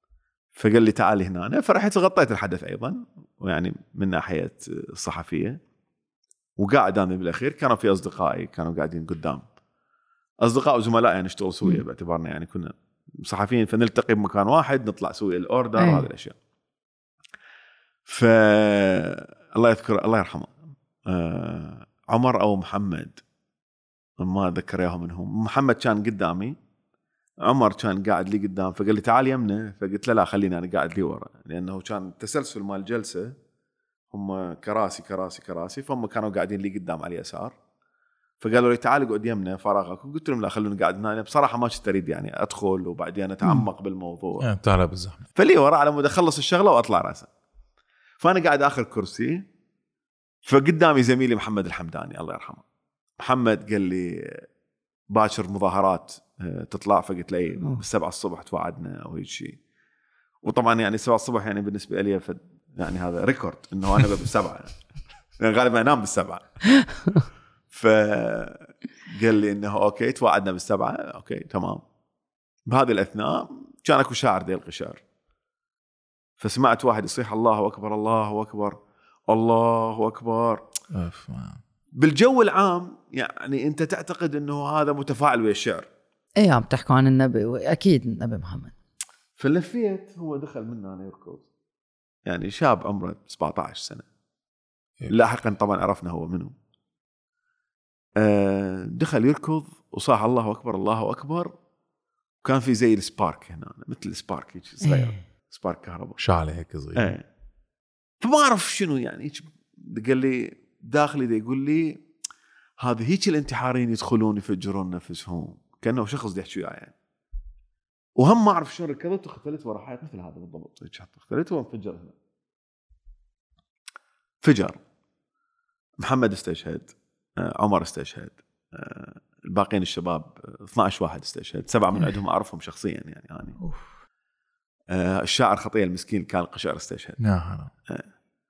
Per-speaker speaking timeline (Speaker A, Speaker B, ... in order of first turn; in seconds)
Speaker A: 0.6-5.6, 6.6-9.4, 10.4-12.7, 13.2-16.3, 18.1-20.6, 21.1-23.2, 24.2-26.6, 27.4-33.3, 34.1-37.5, 38.4-44.4, 45.4-47.3, 48.2-49.4, 50.5-52.6, 53.2-54.5, 55.1-59.6, 60.4-64.7, 65.4-66.5, 67.7-71.8, 72.7-75.0, 76.4-80.7, 82.0-85.9, 89.4-91.5, 92.3-94.0, 95.1-96.5, 98.2-101.5, 102.4-106.2, 107.0-107.2, 108.2-112.0, 112.8-116.9, 118.2-122.1, 124.4-124.8, 126.0-133.6, 134.9-137.2
Speaker B: 15.8-16.1, 66.8-67.2, 86.4-88.7, 104.8-105.2
Speaker C: 44.4-45.2, 80.9-81.6, 106.2-107.1, 137.2-137.7